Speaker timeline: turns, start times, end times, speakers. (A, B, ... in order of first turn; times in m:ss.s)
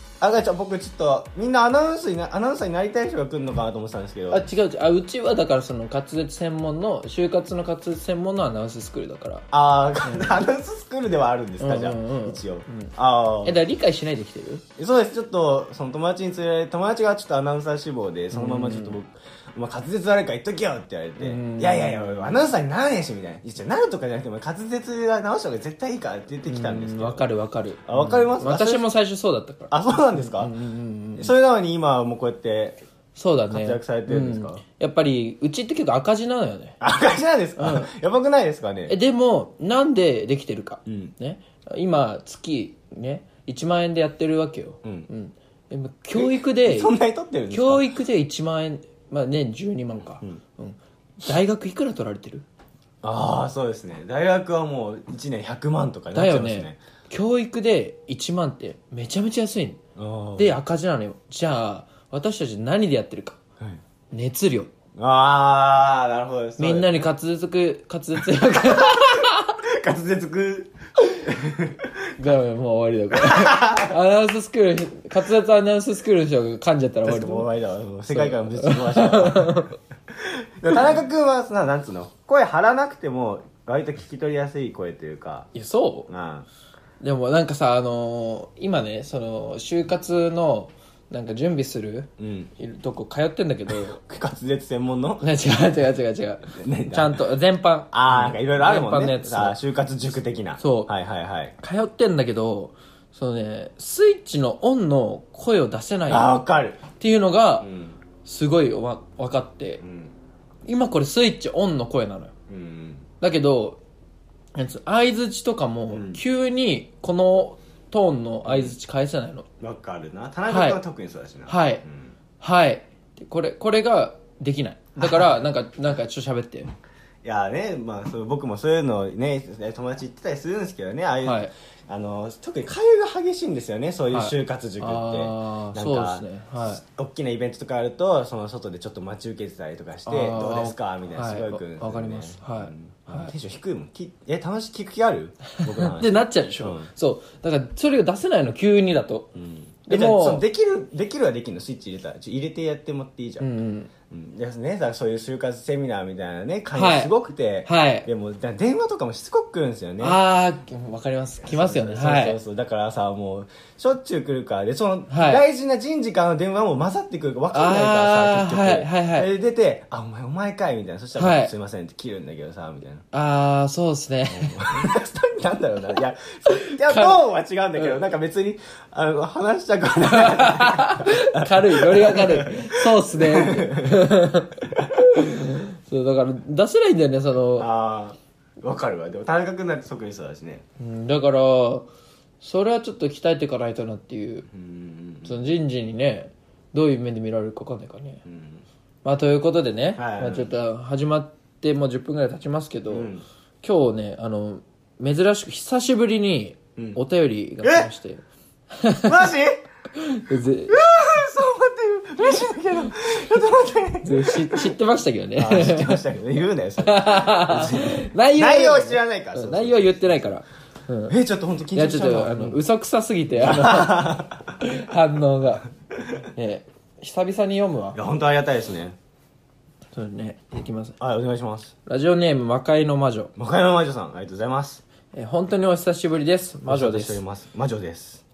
0:00.2-0:04.5 A
0:04.3-0:09.5 B
0:09.5-0:13.6 A
0:10.0-0:10.4 B
0:11.6-0:14.6 B
0:14.8-0:27.2 A
0:18.3-0:19.0 B
0:21.2-0:22.4 B
0:26.4-0:31.3 B
0:27.8-0:28.8 A
0:29.7-0:30.5 A
0:31.2-0:32.8 A
0:33.1-0:36.8 B
0:33.5-0:34.6 A
0:36.8-0:39.0 A
0:37.6-0:37.9 B
0:38.9-0:46.9 B
0:40.8-0:41.1 A
0:44.8-0:45.1 A
0:46.1-0:47.8 A
0:47.5-0:52.4 B
0:53.0-0:56.8 A
0:56.1-0:59.8 B
1:00.0-1:00.5 A
1:00.4-1:03.4 B
1:04.1-1:04.7 B
1:05.0-1:07.0 A
1:06.6-1:09.6 B
1:08.6-1:12.1 A
1:12.2-1:17.5 B
1:13.2-1:14.0 A
1:17.0-1:25.5 A
1:18.1-1:19.8 B
1:25.5-1:26.1 B
1:26.1-1:26.5 A
1:27.0-1:34.0 B
1:32.2-1:32.5 A
1:33.7-1:35.2 A
1:35.2-1:39.6 B
1:36.5-1:37.2 A
1:37.9-1:41.5 A
1:40.6-1:40.9 B
1:41.6-1:46.4 B
1:46.1-1:46.8 A
1:47.0-1:47.7 B
1:47.6-1:48.0 A
1:48.2-1:49.8 B
1:49.8-1:50.1 A
1:50.6-1:52.3 B
1:52.5-1:53.0 A
1:53.2-1:53.8 B
1:54.5-1:59.4 B
1:55.9-1:56.2 A
1:58.4-1:58.7 A
1:59.6-2:02.1 A
2:00.5-2:00.8 B
2:01.5-2:01.8 B
2:02.4-2:06.7 B
2:05.0-2:05.4 A
2:07.2-2:26.9 A
2:11.2-2:11.5 B
2:14.1-2:16.8 B
2:20.0-2:23.3 B
2:25.8-2:29.4 B
2:29.3-2:33.4 A
2:29.9-2:30.4 B
2:33.4-2:33.9 B
2:34.1-2:40.2 A
2:36.7-2:37.1 B
2:37.6-2:38.1 B
2:40.0-2:42.4 B
2:41.4-2:53.0 A
2:45.1-2:45.4 B
2:47.5-2:49.3 B
2:51.2-2:51.5 B
2:53.1-2:54.9 B
2:54.3-3:04.1 A
2:56.5-2:57.2 B
3:00.0-3:07.7 B
3:04.7-3:05.6 A
3:07.6-3:10.6 A
3:10.8-3:11.9 B
3:12.4-3:14.5 B
3:14.5-3:15.4 A
3:15.2-3:18.2 B
3:18.2-3:18.6 A
3:19.0-3:23.1 B
3:20.0-3:20.5 A
3:22.9-3:23.2 A
3:23.6-3:29.1 B
3:27.6-3:27.9 A
3:29.0-3:29.6 A
3:29.9-3:30.8 B
3:30.7-3:34.7 A
3:34.0-3:36.0 B
3:35.4-3:40.3 A
3:36.8-3:41.2 B
3:41.1-3:42.6 A
3:41.7-3:45.6 B
3:43.4-3:44.6 A
3:46.3-3:48.0 B
3:47.9-3:49.0 A
3:49.9-3:51.0 B
3:51.0-3:51.7 A
3:51.8-3:53.3 B
3:53.4-3:54.8 A
3:55.1-3:57.2 B
3:56.6-3:58.2 A